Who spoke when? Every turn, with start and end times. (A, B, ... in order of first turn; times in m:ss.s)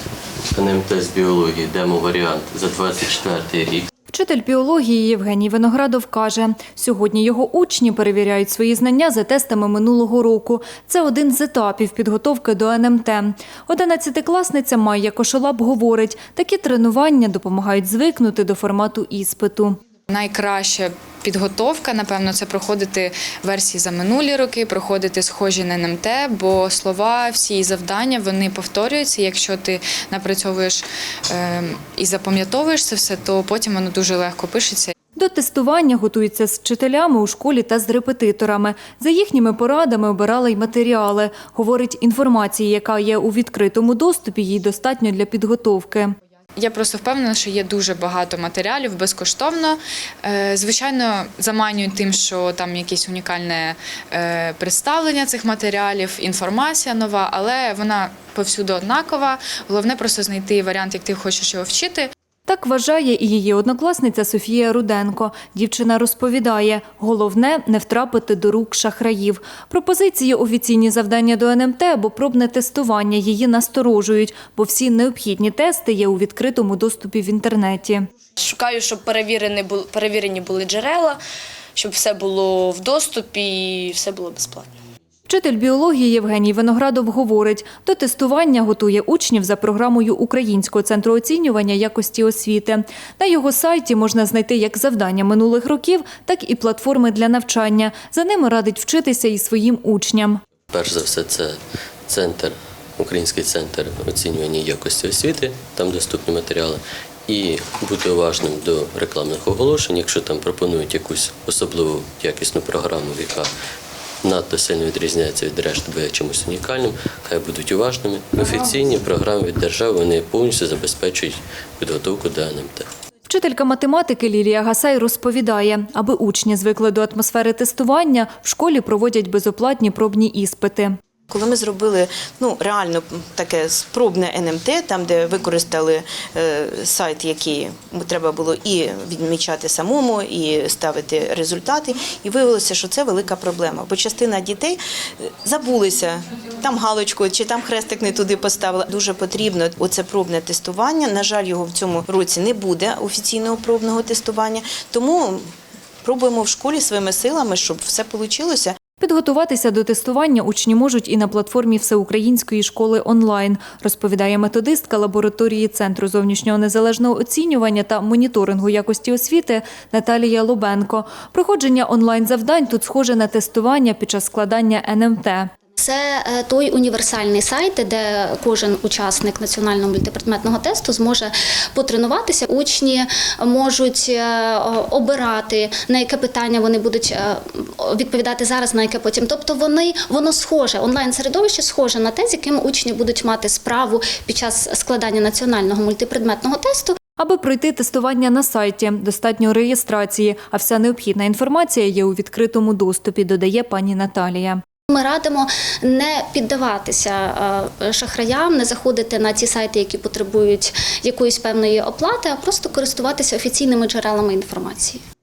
0:00.5-0:03.9 A
0:04.1-0:19.8 B
0:20.1-0:34.9 C
0:35.2-0:46.2 B
0:46.6-1:02.1 C
1:02.5-1:18.1 B
1:18.4-1:21.2 D
1:21.8-1:24.7 D
1:25.3-1:40.4 B
1:40.7-1:53.5 A
1:54.2-2:02.9 A
2:03.3-2:11.0 B
2:11.3-2:35.4 E
2:36.0-2:38.8 E
2:39.0-2:55.5 B
2:55.8-3:17.0 F
3:17.2-3:24.6 B
3:24.9-3:35.0 F